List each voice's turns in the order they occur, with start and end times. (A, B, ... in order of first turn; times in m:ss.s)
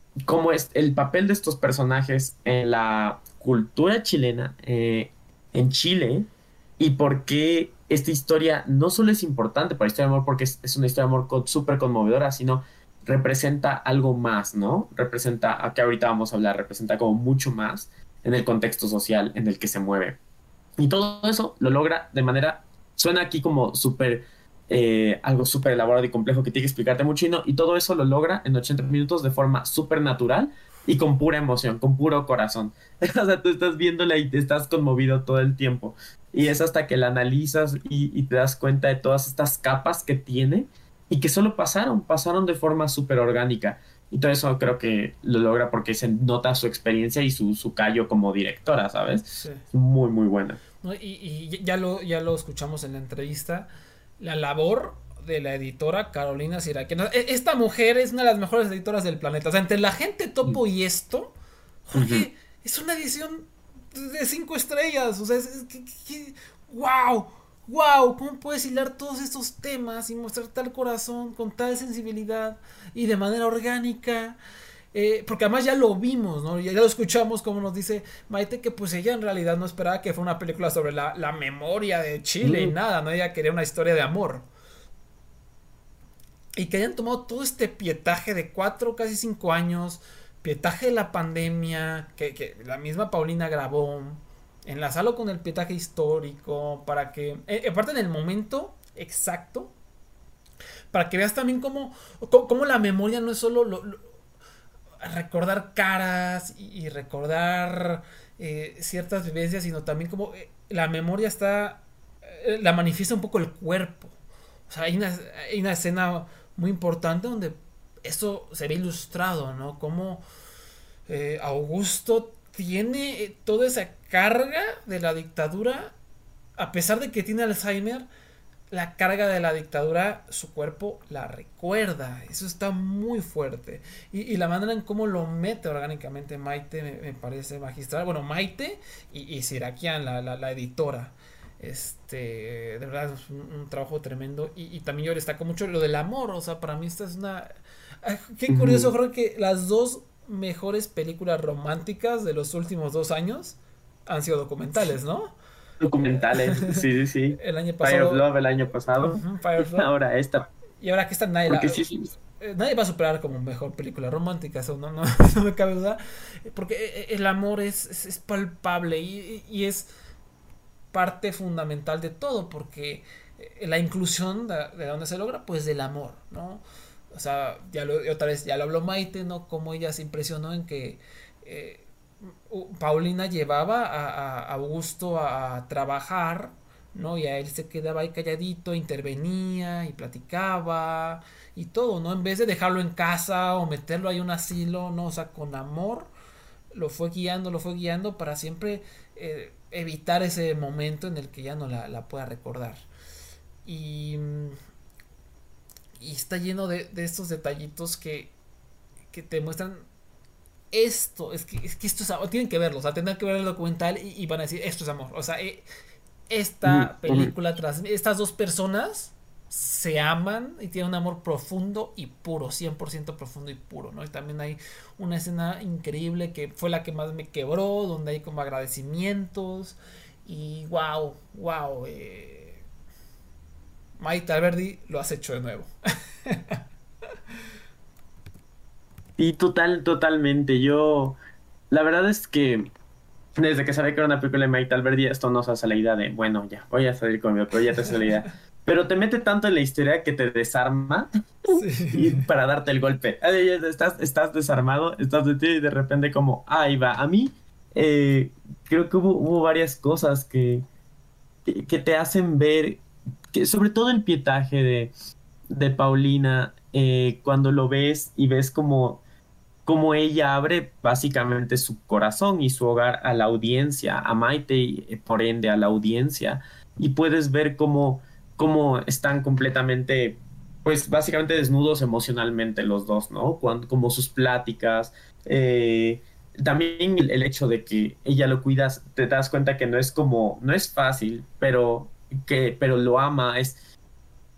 0:00.2-0:20.2 A
0:20.8-0:50.6 A
0:49.4-0:49.6 B
0:50.8-1:01.4 B
1:01.9-1:14.4 B
1:02.0-1:02.3 A
1:14.9-1:24.5 B
1:22.4-1:22.7 A
1:26.6-1:39.7 B
1:40.9-1:44.0 B
1:45.0-1:54.1 B
1:54.7-2:00.2 B
2:01.1-2:05.9 B
2:06.6-2:08.1 B
2:08.7-2:27.5 B
2:28.0-2:35.4 B
2:28.5-2:28.9 A
2:35.8-2:40.5 A
2:36.2-2:36.8 B
2:37.4-2:38.2 B
2:39.0-2:39.9 B
2:40.8-2:49.9 B
2:41.5-2:42.1 A
2:50.9-3:01.9 B
3:02.5-3:16.1 B
3:16.7-3:22.9 B
3:23.6-3:24.6 B
3:26.0-3:28.3 B
3:29.1-3:29.8 B
3:30.7-3:35.6 B
3:36.3-3:52.6 B
3:36.6-3:37.3 A
3:54.0-3:55.7 B
3:56.3-3:56.6 B
3:59.2-4:01.2 A
4:01.7-4:02.7 A
4:03.4-4:20.7 A
4:11.5-4:12.3 B
4:21.5-4:24.9 A
4:25.5-4:29.0 A
4:29.7-4:53.6 A